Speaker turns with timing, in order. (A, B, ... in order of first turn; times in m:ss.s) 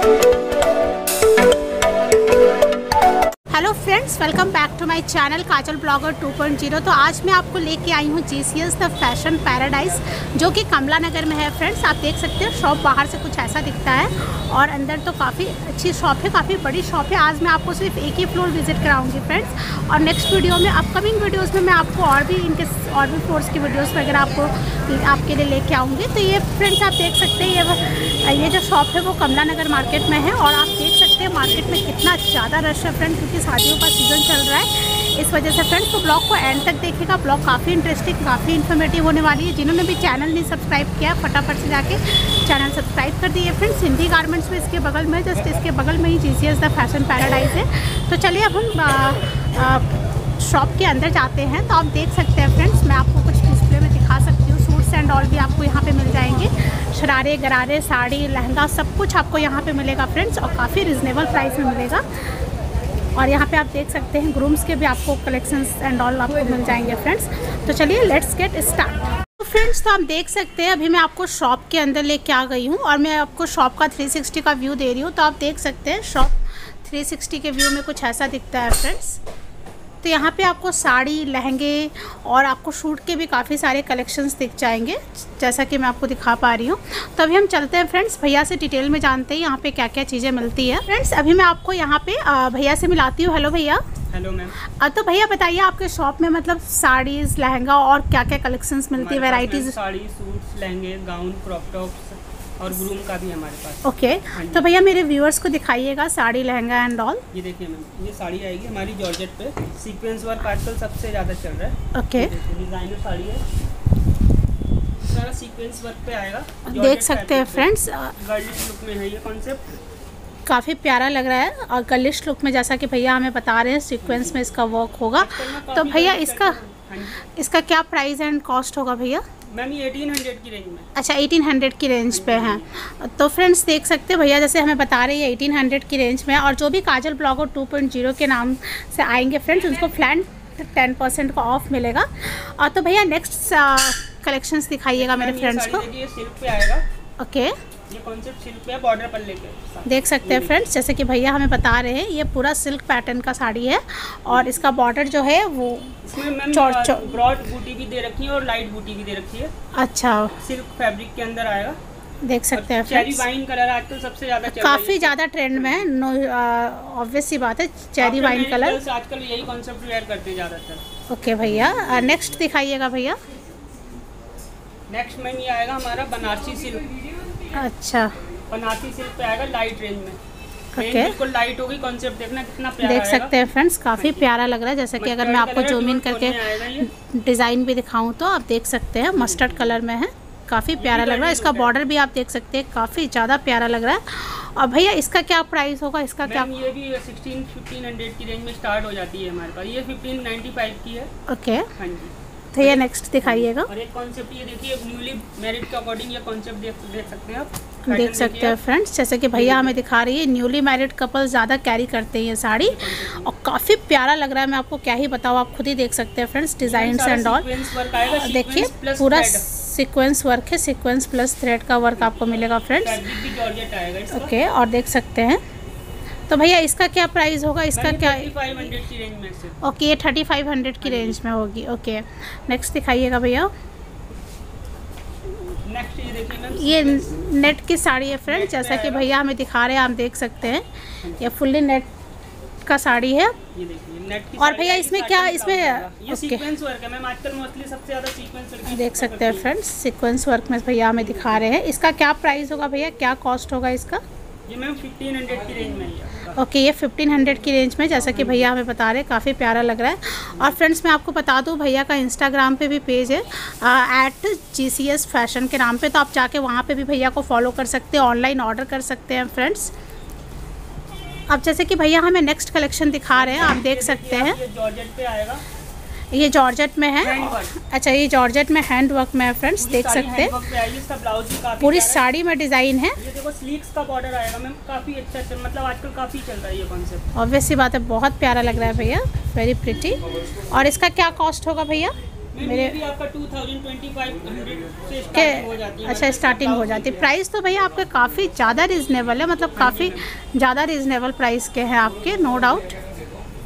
0:03.5-1:02.0 A
1:03.2-1:19.2 A
1:20.0-1:33.8 A
1:34.1-1:34.6 B
1:34.7-1:39.8 A
1:39.0-1:44.7 B
1:43.8-1:47.2 A
1:47.3-1:53.4 B
1:51.9-1:52.3 A
1:55.0-1:59.6 B
1:56.7-1:58.1 A
2:00.5-2:06.6 A
2:04.0-2:04.4 B
2:05.1-2:07.3 B
2:07.4-2:09.2 A
2:09.5-2:10.9 B
2:10.9-2:25.8 A
2:12.1-2:12.7 B
2:25.0-2:26.8 B
2:27.2-2:27.5 A
2:27.9-2:30.6 B
2:29.8-2:37.2 A
2:34.3-2:34.7 B
2:36.0-2:39.5 B
2:39.8-2:40.4 A
2:40.4-2:41.8 B
2:42.2-2:43.2 A
2:42.5-2:45.9 B
2:44.5-2:48.8 A
2:48.0-2:50.8 B
2:51.1-2:53.2 A
2:54.9-2:56.8 B
2:57.5-2:58.1 A
2:58.5-3:00.2 B
3:00.8-3:01.1 A
3:00.8-3:03.3 B
3:02.8-3:16.5 A
3:04.0-3:04.3 B
3:05.0-3:06.9 B
3:09.1-3:09.8 B
3:10.8-3:11.8 B
3:16.2-3:21.1 B
3:21.3-3:21.7 A
3:21.8-3:28.6 B
3:22.5-3:23.7 A
3:27.9-3:43.1 A
3:29.3-3:29.8 B
3:32.6-3:33.3 B
3:36.6-3:39.4 B
3:42.8-3:44.3 B
3:44.1-3:45.4 A
3:46.3-3:48.6 A
3:47.8-3:49.6 B
3:49.6-3:53.5 A
3:50.8-3:51.2 B
3:55.5-3:57.2 B
3:56.5-4:00.6 A
3:58.3-3:59.1 B
4:01.0-4:01.3 B
4:01.2-4:01.9 A
4:02.6-4:03.4 A
4:03.5-4:09.5 B
4:04.4-4:06.4 A
4:08.7-4:14.0 A
4:11.0-4:11.5 B
4:14.5-4:16.4 B
4:16.4-4:29.7 A
4:18.1-4:18.5 B
4:31.3-4:34.4 A
4:33.1-4:35.4 B
4:36.1-4:40.4 A
4:37.0-4:37.5 B
4:39.6-4:42.1 B
4:41.6-4:43.0 A
4:43.0-4:47.1 B
4:47.1-4:52.8 A
4:52.3-4:57.1 B
4:55.1-5:02.8 A
4:59.6-5:00.0 B